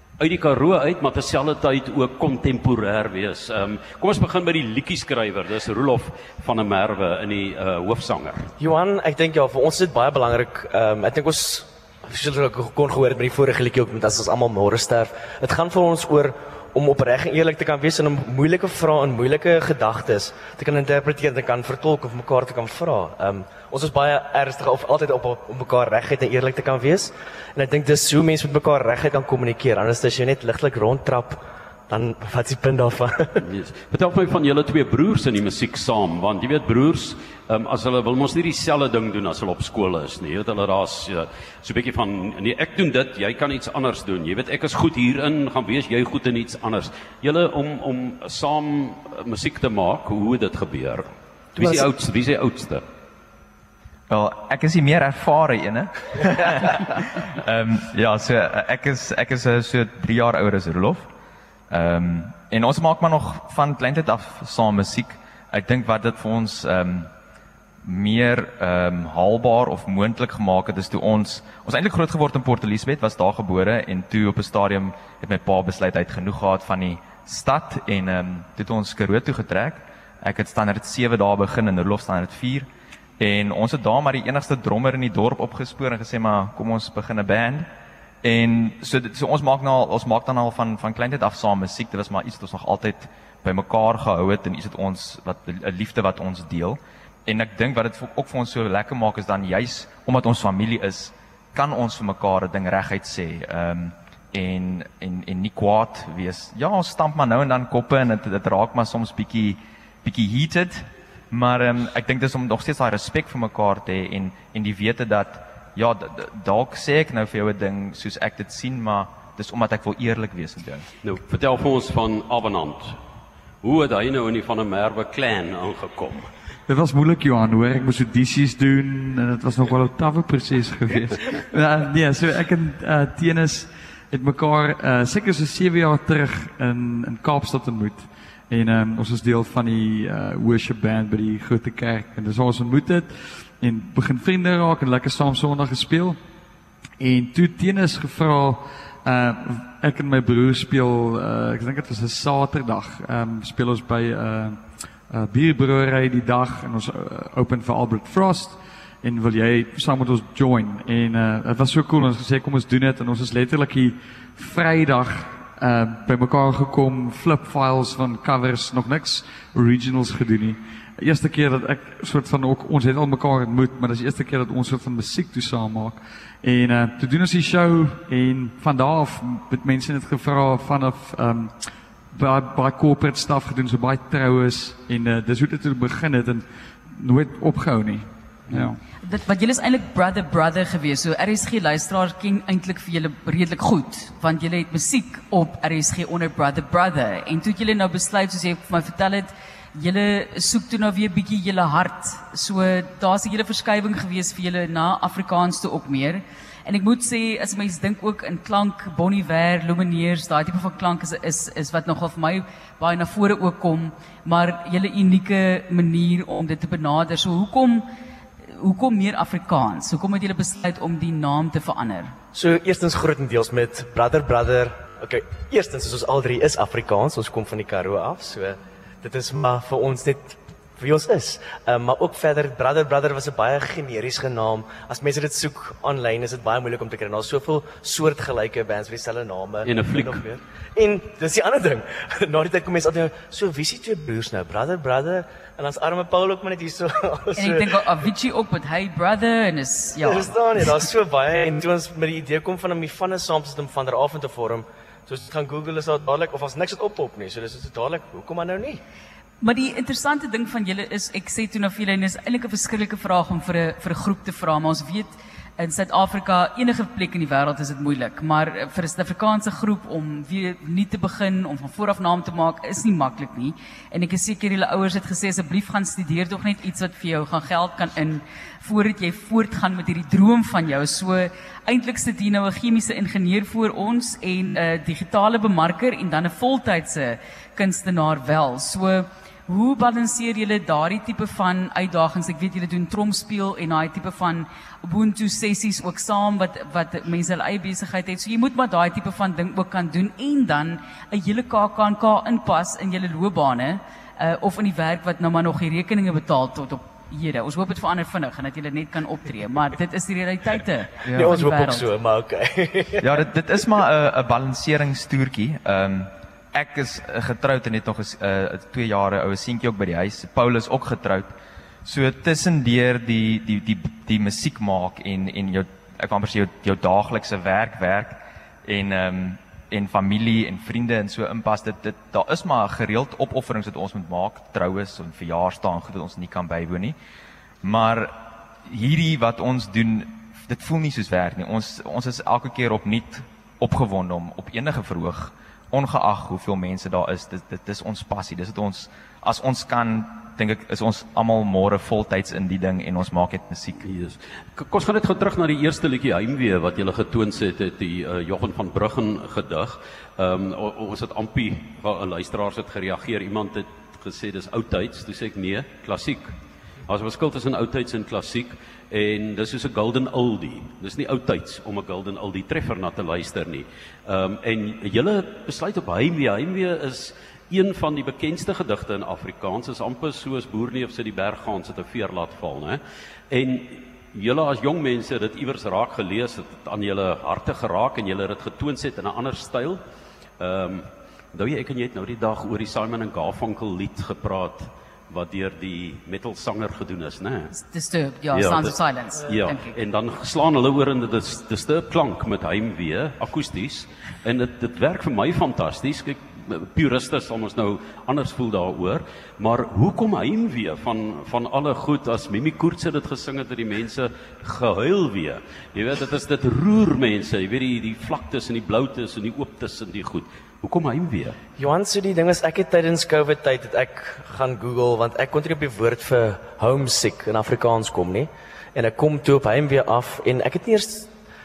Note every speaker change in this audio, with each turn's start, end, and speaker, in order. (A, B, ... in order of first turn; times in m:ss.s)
0:00.2-0:08.5 A
0:08.6-0:33.4 B
0:33.4-0:52.8 A
0:54.1-1:01.1 C
1:01.7-1:07.1 C
1:07.8-1:22.7 C
1:23.2-1:27.7 C
1:28.2-2:00.9 C
2:01.0-2:03.0 A
2:03.6-2:06.3 A
2:06.7-2:26.2 D
2:27.0-3:08.8 D
3:09.0-3:37.9 E
3:38.6-3:42.1 E
3:42.3-4:07.7 B
3:59.6-4:00.2 A
4:07.4-4:10.8 E
4:10.0-4:18.8 B
4:19.4-5:11.8 E
5:11.1-5:11.4 C
5:11.1-5:13.1 B
5:13.0-5:21.3 C
5:21.8-5:37.0 C
5:37.6-5:53.8 C
5:53.8-6:06.3 A
6:06.9-6:29.8 A
6:30.4-6:37.5 A
6:37.5-6:39.8 E
6:38.3-6:38.7 A
6:39.2-7:01.4 A
7:01.6-7:11.1 B